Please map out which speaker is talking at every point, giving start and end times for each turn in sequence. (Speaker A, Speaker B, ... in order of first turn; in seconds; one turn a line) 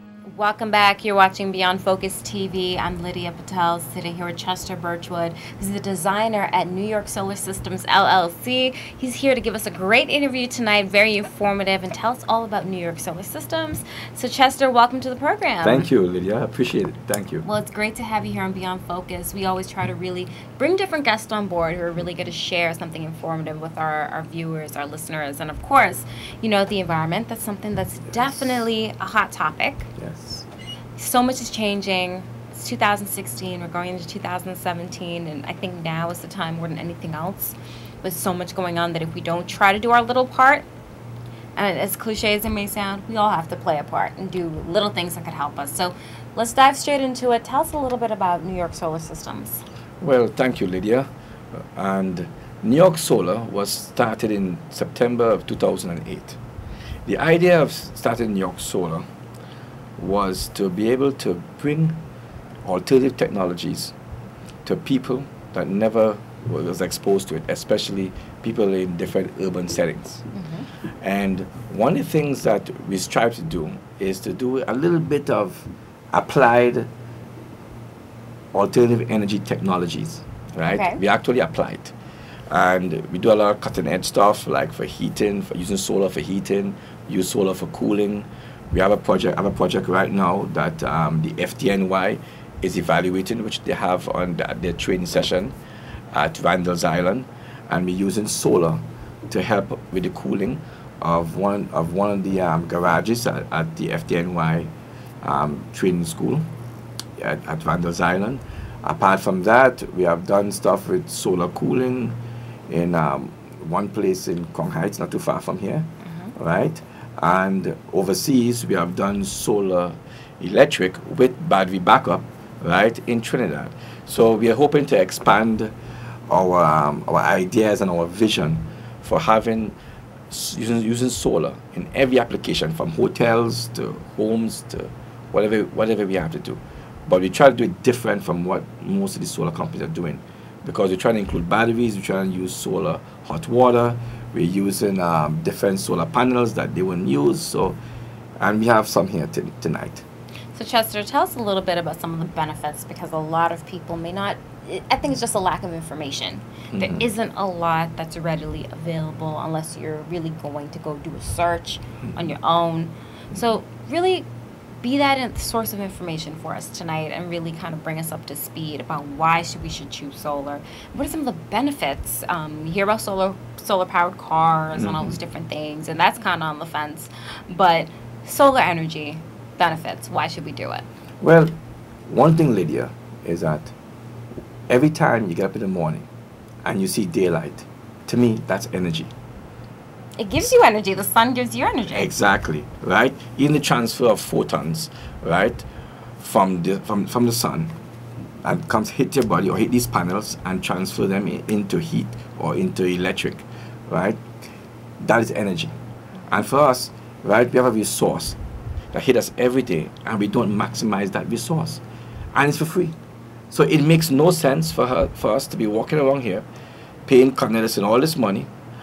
Speaker A: 0.2-15.9
Speaker B: 15.6-17.4
Speaker A: 17.4-29.9
Speaker B: 30.0-30.5
Speaker A: 31.0-40.7
Speaker A: 41.6-49.6
Speaker B: 50.0-51.1
Speaker B: 51.8-56.4
Speaker B: 57.1-59.1
Speaker B: 60.0-62.0
Speaker B: 62.6-64.0
Speaker B: 64.6-70.3
Speaker A: 70.3-70.7
Speaker B: 71.0-76.9
Speaker B: 78.5-82.0
Speaker A: 80.7-81.0
Speaker B: 82.5-95.5
Speaker B: 96.1-104.7
Speaker B: 105.2-106.5
Speaker B: 107.2-112.2
Speaker B: 112.7-125.7
Speaker A: 116.0-116.3
Speaker B: 126.3-129.8
Speaker B: 130.3-147.8
Speaker B: 148.4-150.1
Speaker A: 150.5-164.3
Speaker B: 156.7-157.1
Speaker A: 164.8-180.8
Speaker B: 174.8-175.2
Speaker B: 181.2-181.6
Speaker B: 182.1-183.7
Speaker B: 184.7-186.1
Speaker B: 186.7-189.1
Speaker A: 190.2-192.1
Speaker B: 191.9-195.7
Speaker B: 196.2-197.7
Speaker B: 198.4-204.3
Speaker B: 205.0-205.7
Speaker B: 206.3-208.4
Speaker B: 208.9-211.8
Speaker B: 212.3-212.9
Speaker B: 213.5-216.5
Speaker B: 217.1-218.5